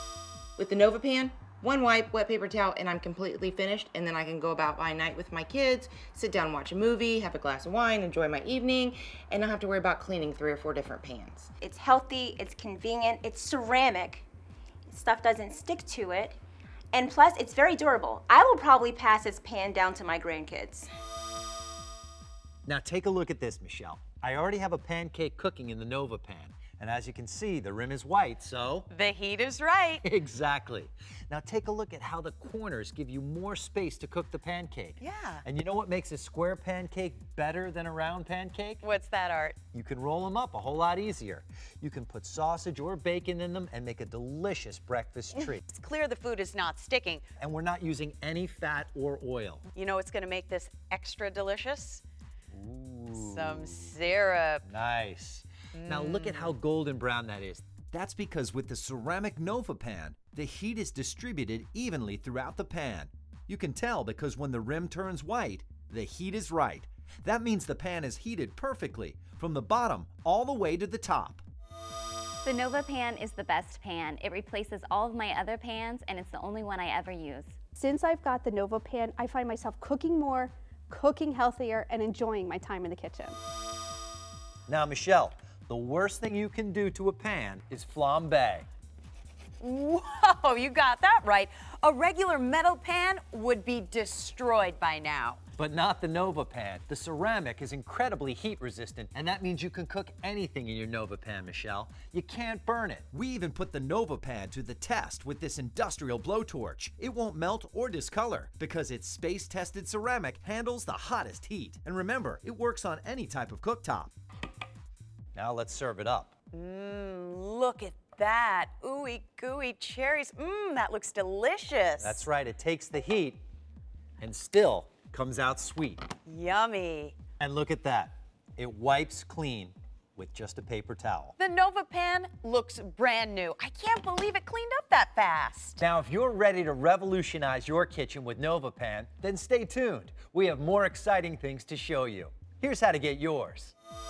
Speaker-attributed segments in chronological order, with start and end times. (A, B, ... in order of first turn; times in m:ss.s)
0:00.6-0:11.5 A
0:11.6-0:14.2 B
0:14.9-0:16.4 B
0:16.9-0:20.9 B
0:22.6-0:28.9 C
0:28.9-0:30.0 D
0:30.0-0:38.8 C
0:35.0-0:35.4 D
0:38.8-0:39.6 D
0:39.7-0:45.6 C
0:45.6-0:47.2 D
0:47.4-0:49.6 C
0:49.7-0:52.0 D
0:52.5-0:53.9 C
0:53.2-0:54.6 D
0:54.6-0:57.6 C
0:55.7-0:56.5 D
0:57.9-1:11.4 E
1:12.4-1:17.6 F
1:17.8-1:23.4 G
1:24.7-1:28.7 C
1:29.6-1:35.4 D
1:35.6-1:43.1 C
1:43.1-1:54.1 E
1:55.3-1:56.3 C
1:56.5-2:02.2 D
2:02.0-2:03.4 C
2:04.2-2:06.2 C
2:06.2-2:07.2 D
2:07.4-2:11.3 C
2:11.4-2:15.8 D
2:15.8-2:23.7 C